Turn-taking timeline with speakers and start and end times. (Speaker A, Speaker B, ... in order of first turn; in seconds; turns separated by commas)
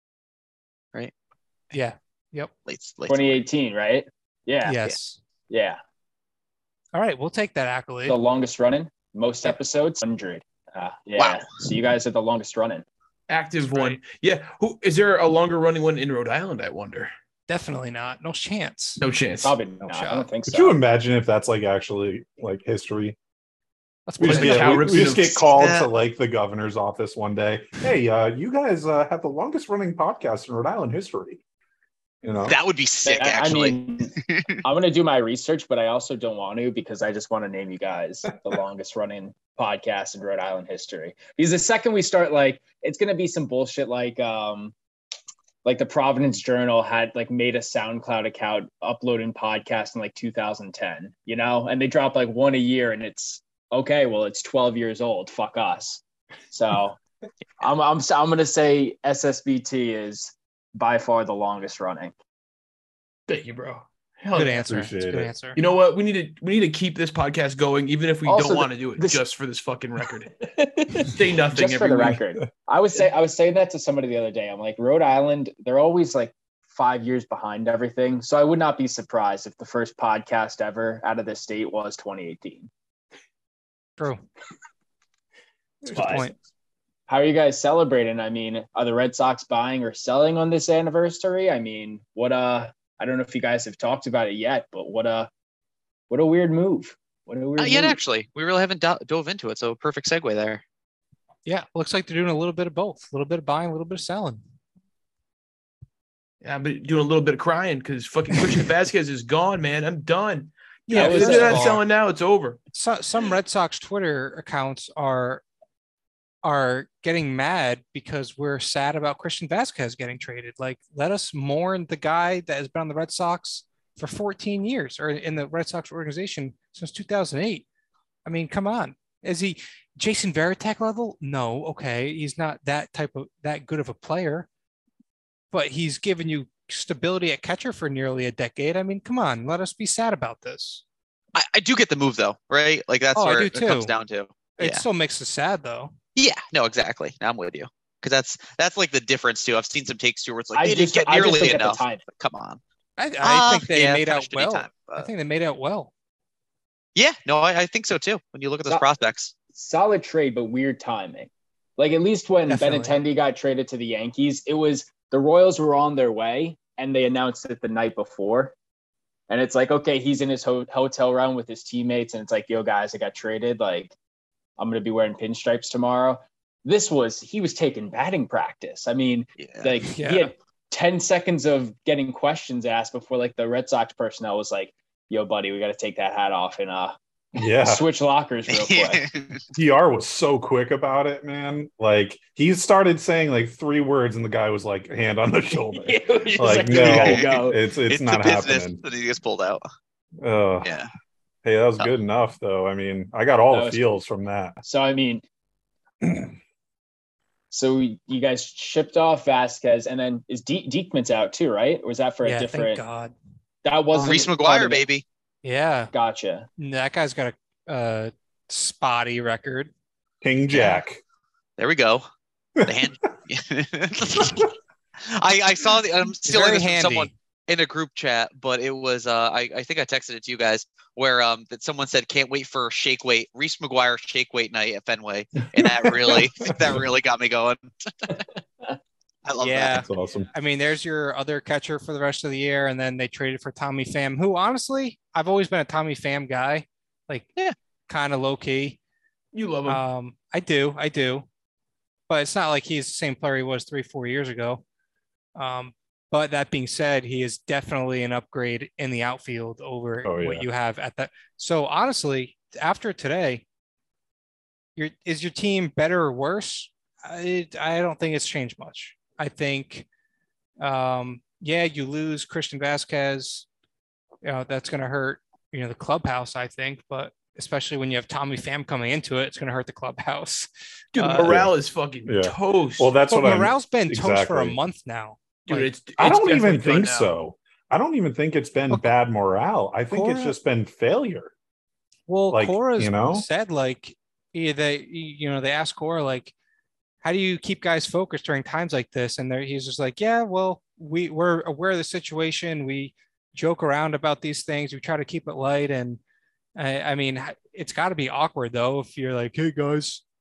Speaker A: 1.7-2.5, Speaker B: 2.7-3.4, Speaker C: 3.1-4.8, Speaker A: 4.6-5.2, Speaker C: 5.5-5.8, Speaker A: 6.9-8.2, Speaker C: 8.1-12.8, Speaker B: 11.2-11.4, Speaker D: 13.3-17.1, Speaker A: 13.6-14.0, Speaker A: 17.5-19.0, Speaker D: 19.0-19.6, Speaker C: 19.4-20.8, Speaker A: 19.9-20.3, Speaker E: 20.5-23.1, Speaker A: 24.1-25.1, Speaker D: 24.2-25.5, Speaker E: 24.2-31.4, Speaker B: 25.5-25.9, Speaker E: 32.2-32.6, Speaker B: 32.5-33.7, Speaker C: 33.0-44.7, Speaker C: 45.6-57.0, Speaker C: 57.6-62.1, Speaker D: 63.3-64.6, Speaker A: 64.3-65.6, Speaker E: 64.7-65.3, Speaker D: 65.5-70.3, Speaker C: 68.2-69.2, Speaker C: 70.4-82.7, Speaker D: 71.0-72.2, Speaker A: 84.0-84.2, Speaker A: 85.9-86.3, Speaker C: 85.9-86.3, Speaker C: 87.1-95.3, Speaker C: 96.1-98.0, Speaker B: 97.6-100.6, Speaker A: 101.5-104.4, Speaker D: 106.4-112.6, Speaker A: 110.9-111.8, Speaker C: 110.9-111.8, Speaker A: 112.7-115.4, Speaker A: 116.4-127.6, Speaker A: 128.2-134.5, Speaker A: 135.5-140.8, Speaker B: 141.3-144.8, Speaker A: 143.1-143.9, Speaker A: 144.6-145.9, Speaker B: 146.2-152.6, Speaker C: 150.5-152.0, Speaker A: 153.0-155.9, Speaker B: 153.2-155.1, Speaker B: 156.9-159.3, Speaker C: 159.5-168.5, Speaker A: 162.5-163.0, Speaker C: 169.3-173.9, Speaker C: 174.6-186.9, Speaker B: 179.4-179.7, Speaker A: 179.9-180.3, Speaker E: 187.3-187.8, Speaker C: 187.6-189.0, Speaker B: 188.5-189.4, Speaker E: 189.5-198.8, Speaker C: 195.7-197.6, Speaker B: 196.8-197.3, Speaker B: 197.9-199.6, Speaker E: 200.2-200.7, Speaker B: 200.6-200.9, Speaker E: 201.4-204.6, Speaker C: 203.5-203.8, Speaker C: 204.6-205.2, Speaker E: 206.0-206.3, Speaker C: 207.5-212.8, Speaker A: 212.2-213.1, Speaker C: 213.6-214.8, Speaker B: 213.9-215.0, Speaker A: 215.4-215.9, Speaker C: 215.9-216.5, Speaker A: 216.6-219.7, Speaker E: 220.2-221.0, Speaker A: 220.5-220.8, Speaker B: 221.6-222.1, Speaker B: 222.6-224.5, Speaker B: 225.1-238.1, Speaker A: 226.2-227.1, Speaker B: 239.2-239.9, Speaker A: 239.4-247.3, Speaker E: 239.7-240.3, Speaker A: 247.9-248.8, Speaker D: 249.3-249.8, Speaker A: 249.7-251.2, Speaker A: 252.1-254.6, Speaker A: 255.3-263.4, Speaker E: 260.0-260.4, Speaker A: 264.8-269.9, Speaker A: 270.6-273.4, Speaker A: 274.2-281.3, Speaker D: 280.9-282.9, Speaker E: 281.2-281.5, Speaker E: 282.1-284.6, Speaker A: 283.1-285.7, Speaker D: 285.5-287.1, Speaker E: 286.0-291.3, Speaker A: 289.9-290.4, Speaker A: 292.1-296.3, Speaker E: 292.3-293.2, Speaker A: 297.0-306.0, Speaker A: 306.6-310.0